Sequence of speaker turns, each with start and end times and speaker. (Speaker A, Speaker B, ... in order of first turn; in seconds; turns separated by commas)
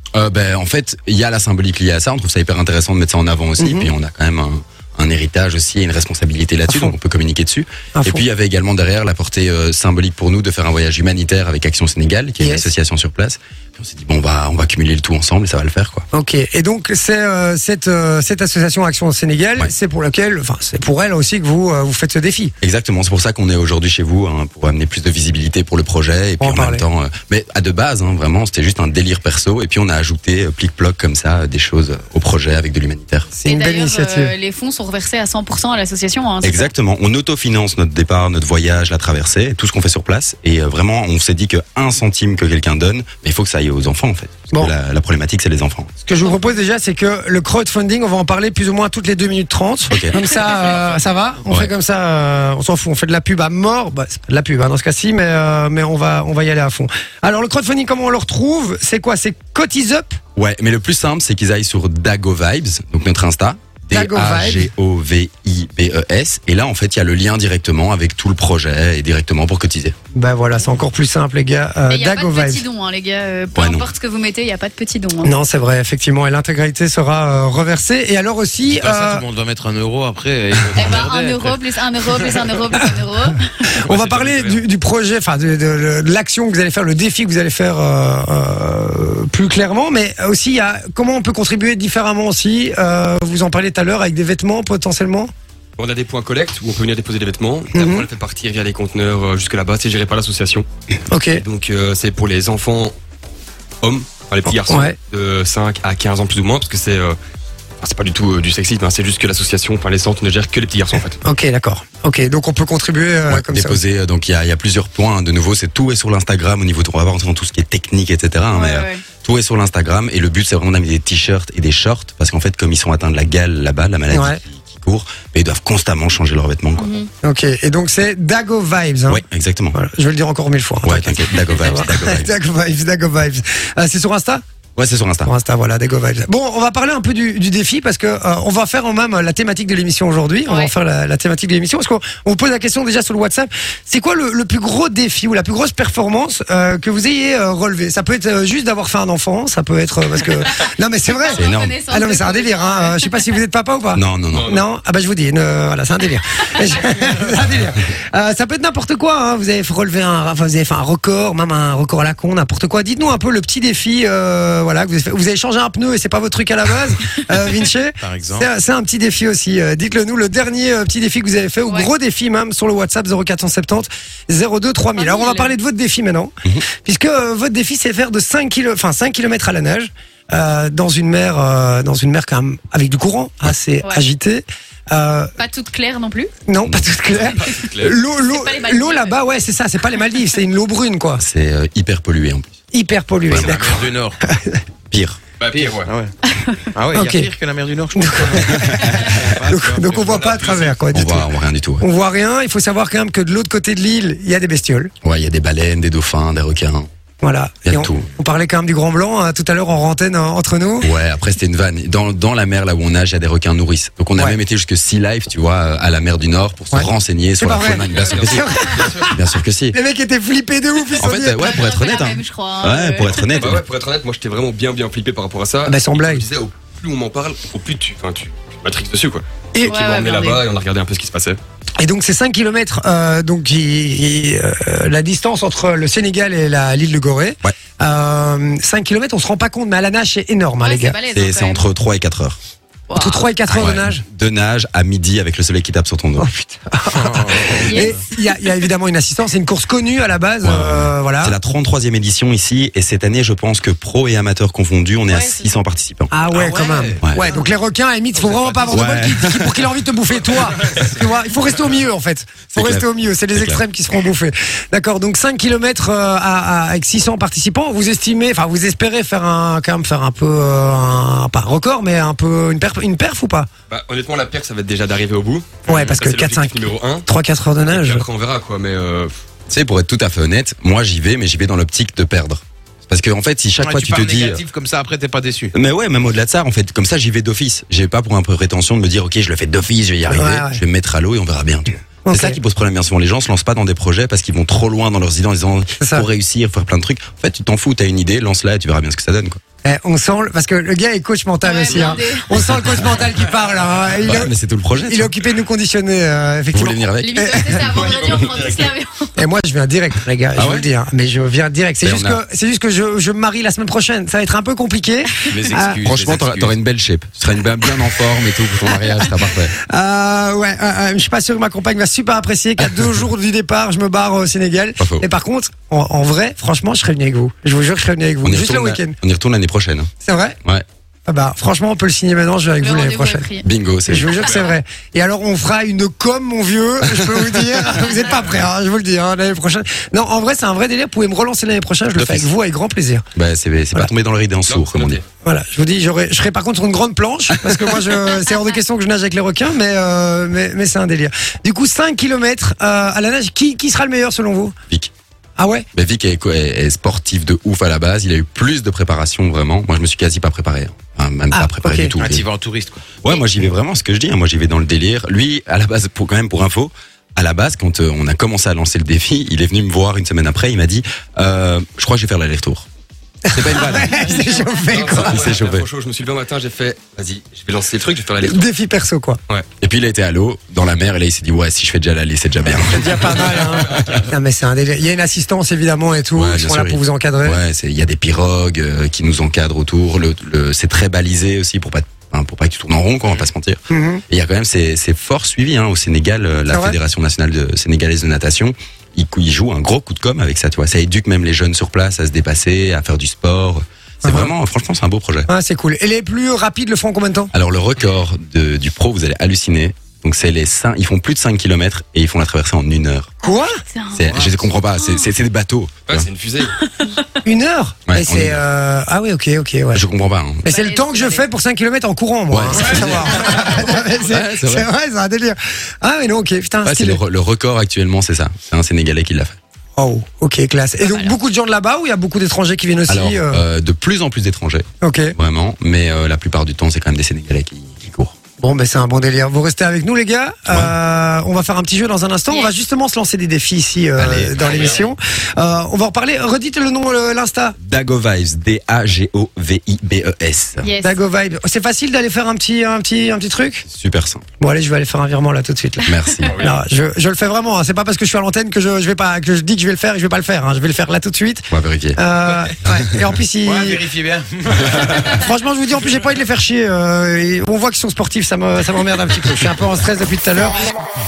Speaker A: 0.1-16.0, Speaker B: 3.6-3.9, Speaker B: 8.0-8.2, Speaker B: 12.4-12.7, Speaker B: 16.1-22.5, Speaker A: 22.6-33.3, Speaker B: 26.4-26.8, Speaker B: 33.3-34.3, Speaker C: 33.4-36.7, Speaker A: 36.4-45.9, Speaker B: 46.0-60.2, Speaker A: 49.9-50.2, Speaker A: 60.4-69.9, Speaker B: 63.9-64.7, Speaker B: 70.1-72.6, Speaker C: 71.9-75.3, Speaker A: 73.5-73.9, Speaker B: 75.2-79.3, Speaker D: 78.7-81.6, Speaker C: 80.7-83.4, Speaker B: 83.8-95.3, Speaker E: 83.8-84.6, Speaker E: 95.8-100.7, Speaker B: 97.7-98.0, Speaker B: 101.1-101.4, Speaker E: 101.3-102.9, Speaker E: 103.8-107.2, Speaker B: 104.6-105.0, Speaker E: 107.8-111.2, Speaker B: 111.2-113.8, Speaker A: 113.3-127.0, Speaker C: 118.5-119.0, Speaker B: 124.1-124.4, Speaker C: 126.8-127.1, Speaker B: 127.2-129.2, Speaker A: 129.1-129.8, Speaker B: 129.7-134.4, Speaker A: 130.8-132.3, Speaker A: 134.8-135.3, Speaker B: 135.2-185.3, Speaker C: 151.1-153.1, Speaker A: 151.3-151.8, Speaker A: 153.9-154.5, Speaker E: 154.3-154.6, Speaker D: 168.0-168.5, Speaker C: 174.9-175.5, Speaker C: 185.4-186.3, Speaker B: 186.5-191.2, Speaker A: 186.6-186.9, Speaker E: 187.1-188.0, Speaker C: 188.2-189.2, Speaker A: 191.2-192.5, Speaker B: 192.7-194.6, Speaker A: 193.3-193.6, Speaker D: 193.3-194.2, Speaker A: 194.9-195.2, Speaker E: 195.4-195.9, Speaker D: 195.7-196.1, Speaker C: 196.3-196.6, Speaker D: 196.7-200.7, Speaker B: 196.9-197.3, Speaker B: 197.9-201.3, Speaker A: 198.7-199.1, Speaker E: 200.2-200.5, Speaker A: 200.9-201.8, Speaker B: 201.8-204.9, Speaker A: 205.0-206.9, Speaker B: 207.2-210.9, Speaker A: 207.7-208.1, Speaker A: 210.8-219.8, Speaker B: 216.7-219.2, Speaker E: 217.8-219.1, Speaker B: 219.7-221.6, Speaker A: 221.0-223.6, Speaker C: 221.2-223.5, Speaker E: 223.3-231.4, Speaker B: 225.7-226.2, Speaker C: 229.6-230.4, Speaker B: 231.8-241.0, Speaker C: 240.6-241.6, Speaker A: 241.1-242.4, Speaker C: 242.9-243.2, Speaker B: 242.9-244.0, Speaker A: 243.5-246.3, Speaker B: 246.2-251.3, Speaker D: 246.9-247.5, Speaker C: 247.5-248.2, Speaker A: 250.4-256.1, Speaker C: 255.1-255.4, Speaker B: 256.1-273.5, Speaker D: 256.3-257.5, Speaker D: 258.2-259.0, Speaker A: 258.7-259.8, Speaker D: 260.5-260.9, Speaker A: 262.5-263.6, Speaker E: 273.7-277.1, Speaker B: 275.6-278.0, Speaker E: 277.6-279.1, Speaker A: 279.5-284.4, Speaker D: 283.6-285.5, Speaker A: 285.5-299.4, Speaker B: 290.1-290.6, Speaker B: 292.0-292.4, Speaker B: 295.8-296.1, Speaker B: 299.6-307.8, Speaker C: 301.4-302.3, Speaker A: 302.4-302.8, Speaker A: 304.0-305.1, Speaker A: 306.5-307.6, Speaker C: 307.0-309.2, Speaker E: 307.7-308.7, Speaker B: 309.1-315.8, Speaker A: 310.4-310.7, Speaker A: 311.8-312.2, Speaker D: 315.3-316.5, Speaker A: 315.6-319.5, Speaker B: 319.6-328.9, Speaker A: 324.8-325.1, Speaker A: 328.2-329.9, Speaker B: 330.0-330.4, Speaker B: 331.1-333.3, Speaker C: 332.6-333.5, Speaker A: 333.4-334.4, Speaker B: 333.9-343.1, Speaker A: 337.0-337.3, Speaker A: 341.9-342.3, Speaker A: 343.1-345.0, Speaker E: 344.5-345.0, Speaker B: 345.2-354.5, Speaker A: 347.4-347.9, Speaker B: 355.4-355.7, Speaker A: 355.7-362.2, Speaker B: 361.3-361.9, Speaker D: 362.0-362.9, Speaker A: 363.0-372.6, Speaker B: 373.3-375.2, Speaker A: 373.3-374.2, Speaker E: 374.6-378.5, Speaker A: 375.1-375.7, Speaker B: 378.2-379.2, Speaker A: 379.6-383.9, Speaker B: 382.6-387.4, Speaker A: 386.1-405.3, Speaker B: 393.7-394.0, Speaker B: 396.5-396.8, Speaker B: 404.0-404.3, Speaker B: 405.3-407.3, Speaker A: 407.3-413.1, Speaker B: 413.2-413.6, Speaker C: 413.6-415.1, Speaker A: 413.9-416.1, Speaker E: 415.9-416.6, Speaker C: 416.6-417.0, Speaker B: 417.2-419.8, Speaker A: 417.9-418.4, Speaker A: 419.7-420.5, Speaker B: 420.4-427.0, Speaker C: 420.5-421.2, Speaker A: 422.3-423.4, Speaker A: 424.0-424.7, Speaker A: 426.6-429.4, Speaker B: 429.8-433.4, Speaker C: 430.8-431.1, Speaker A: 432.9-438.1, Speaker B: 434.8-435.1, Speaker B: 438.4-447.6, Speaker A: 440.5-440.7, Speaker A: 443.9-444.6, Speaker E: 444.4-444.8, Speaker A: 447.6-450.7, Speaker C: 450.6-451.0, Speaker B: 450.8-453.6, Speaker A: 453.7-454.2, Speaker B: 454.4-463.9, Speaker A: 455.9-456.5, Speaker E: 456.3-456.6, Speaker A: 461.5-462.0, Speaker D: 463.4-465.2, Speaker B: 464.7-470.6